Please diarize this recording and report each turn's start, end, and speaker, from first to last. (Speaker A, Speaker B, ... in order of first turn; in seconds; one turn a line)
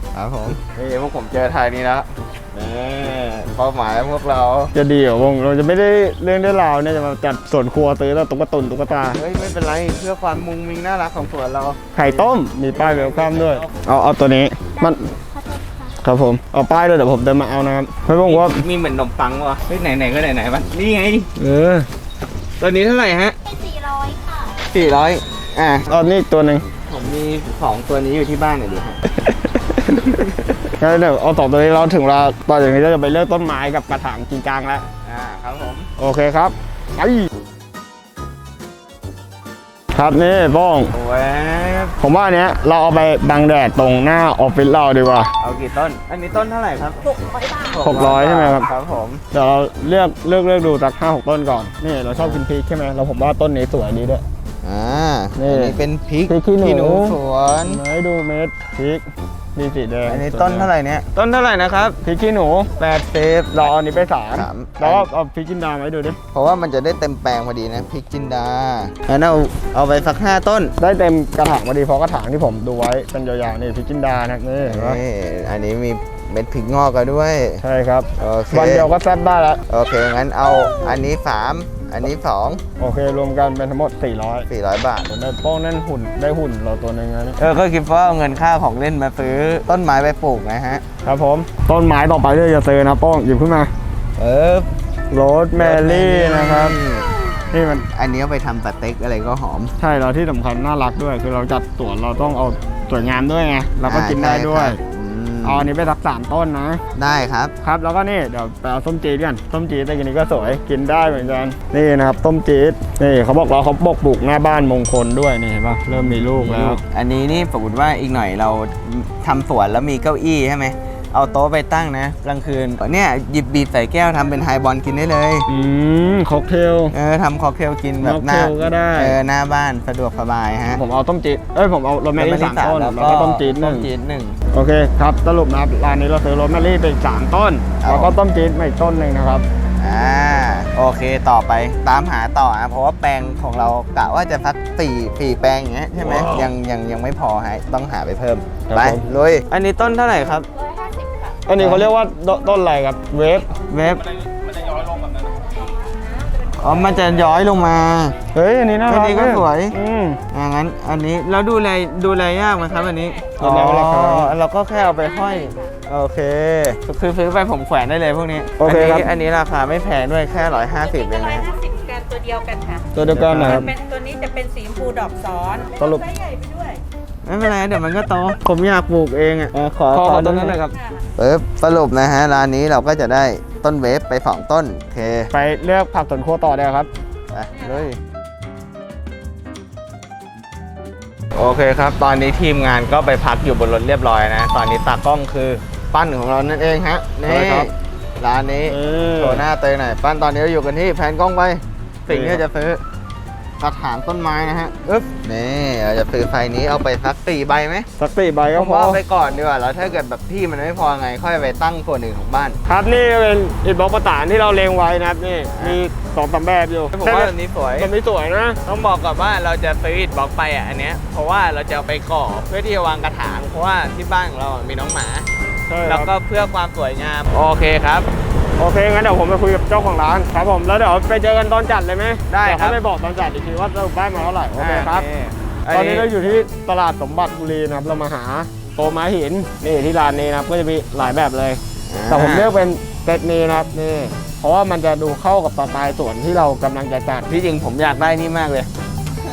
Speaker A: 0.1-4.7
Speaker B: 4.8-9.2
Speaker A: 9.1-13.9
Speaker B: 12.0-15.1
Speaker C: 15.3-15.9
Speaker B: 16.0-18.6
Speaker A: 18.2-21.3
Speaker B: 21.4-21.9
Speaker A: 22.6-23.4
Speaker C: 23.5-24.6
Speaker A: 24.7-25.9
Speaker B: 25.9-26.6
Speaker A: 26.9-29.0
Speaker B: 30.8-34.9
Speaker A: 35.0-35.9
Speaker B: 36.0-37.3
Speaker B: 40.0-40.9
Speaker A: 40.9-42.0
Speaker B: 42.0-45.3
Speaker A: 45.4-47.0
Speaker C: 47.1-47.8
Speaker A: 47.6-49.2
Speaker B: 47.8-48.7
Speaker B: 49.3-54.2
Speaker A: 52.1-52.4
Speaker A: 54.6-57.8
Speaker B: 55.4-55.8
Speaker B: 56.3-59.0
Speaker B: 59.6-60.7
Speaker A: 60.1-62.0
Speaker B: 62.0-62.7
Speaker A: 62.8-63.8
Speaker B: 63.5-66.2
Speaker A: 64.3-65.1
Speaker A: 66.3-70.7
Speaker B: 70.8-75.0
Speaker A: 74.7-77.6
Speaker B: 77.6-79.6
Speaker A: 78.2-78.9
Speaker A: 79.7-82.6
Speaker B: 82.8-84.5
Speaker A: 84.5-85.1
Speaker B: 85.1-87.4
Speaker A: 87.4-90.8
Speaker B: 91.0-93.7
Speaker A: 94.2-94.7
Speaker B: 95.1-96.8
Speaker A: 95.6-97.2
Speaker B: 97.5-97.9
Speaker A: 97.9-99.7
Speaker B: 99.8-104.8
Speaker A: 103.8-105.7
Speaker B: 105.4-106.8
Speaker A: 107.0-107.5
Speaker B: 107.6-116.8
Speaker A: 116.4-125.5
Speaker B: 125.5-126.9
Speaker A: 126.9-130.8
Speaker B: 128.0-129.2
Speaker B: 130.8-133.9
Speaker A: 132.2-134.4
Speaker B: 134.5-139.5
Speaker A: 137.8-138.2
Speaker A: 139.8-150.5
Speaker B: 146.0-146.5
Speaker B: 148.7-149.0
Speaker C: 150.8-151.2
Speaker B: 151.5-153.5
Speaker A: 151.6-151.9
Speaker A: 153.7-154.1
Speaker A: 156.6-158.2
Speaker B: 158.3-160.2
Speaker A: 158.9-159.8
Speaker A: 160.3-171.5
Speaker B: 163.4-164.3
Speaker B: 168.6-169.1
Speaker C: 171.1-172.9
Speaker B: 172.9-173.8
Speaker A: 173.1-173.7
Speaker C: 173.6-176.8
Speaker B: 175.8-176.1
Speaker A: 177.2-180.6
Speaker B: 179.9-180.8
Speaker A: 181.2-185.3
Speaker B: 185.3-186.9
Speaker A: 187.3-188.0
Speaker A: 191.4-202.8
Speaker B: 197.2-197.7
Speaker B: 198.7-199.4
Speaker B: 202.1-202.4
Speaker A: 203.6-207.9
Speaker B: 208.0-209.0
Speaker A: 208.5-212.6
Speaker B: 212.7-218.6
Speaker A: 215.5-215.8
Speaker A: 216.9-217.9
Speaker A: 218.7-225.3
Speaker B: 225.7-226.1
Speaker A: 225.8-228.1
Speaker B: 228.6-235.1
Speaker A: 232.3-232.8
Speaker A: 234.6-236.3
Speaker B: 235.7-247.2
Speaker A: 241.9-242.5
Speaker A: 247.3-248.7